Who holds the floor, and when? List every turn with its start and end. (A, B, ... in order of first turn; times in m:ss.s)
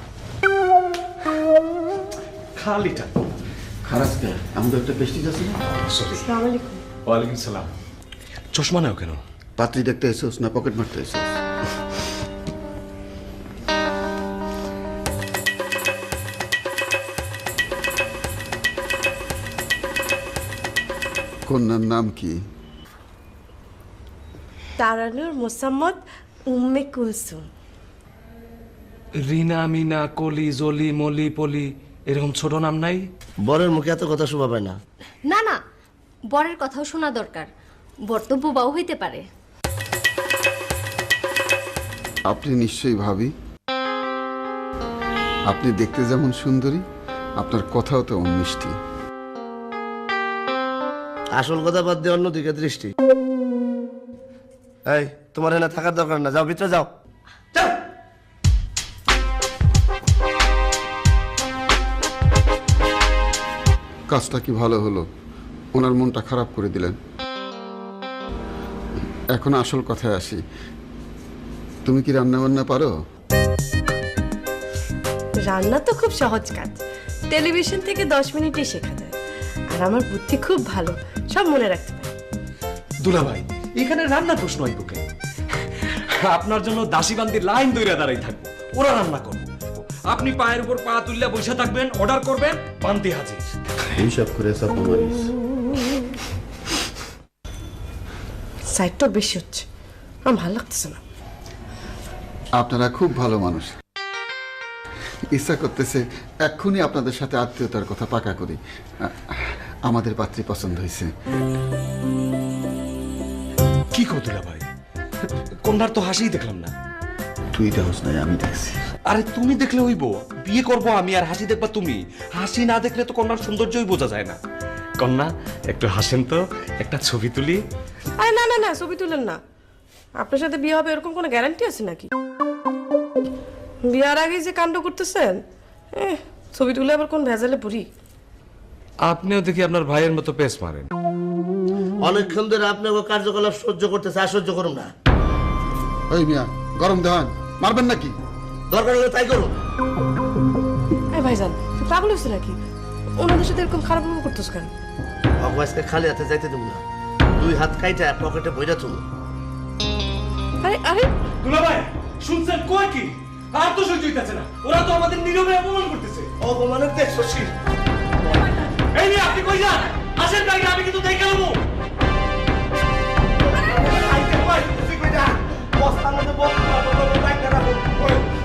0:02.6-0:03.1 A
0:03.8-0:05.6 B
0:05.7-0:06.2 A
0:06.2-0:06.8 C
0:07.0-0:07.7 A
0:08.5-0:09.2 A
0:09.6-0:11.4 B
0:21.5-0:22.4 B
0:24.8-0:27.5 C
0:29.2-0:33.0 A
0:33.4-0:34.8 D
0:35.3-0:35.6 E
0:36.3-0:37.5 E
0:38.1-0:39.2 E
0:42.3-0:43.3 B
0:45.5-0:46.8 B
0:47.4-0:48.7 B
0:51.3-0:52.9 D
0:54.9-0:56.9 D
1:04.1-1:05.0 B
1:05.7-1:07.0 B
1:09.3-1:10.4 B
1:11.8-1:12.9 B
1:15.4-1:19.1 C
1:19.7-1:22.1 C
1:23.0-1:25.0 A
1:25.8-1:33.5 A
1:33.9-1:35.3 B
1:38.7-1:39.6 C
1:40.2-1:41.0 C
1:42.6-1:43.8 B
1:45.3-1:51.1 B
1:53.9-1:54.6 A
1:55.6-1:56.7 A
1:57.5-1:58.8 B
1:59.1-2:04.4 A
2:05.0-2:07.6 A
2:08.2-2:09.4 C
2:10.2-2:12.1 C
2:13.8-2:17.9 C
2:19.0-2:20.9 A
2:22.0-2:24.9 D
2:26.1-2:28.1 B
2:28.7-2:29.5 D
2:31.1-2:32.6 C
2:33.2-2:34.7 C
2:35.4-2:36.8 D
2:37.4-2:39.0 D
2:40.6-2:41.1 C
2:41.4-2:46.3 A
2:46.4-2:47.5 D
2:48.9-2:51.6 A
2:53.5-2:58.2 D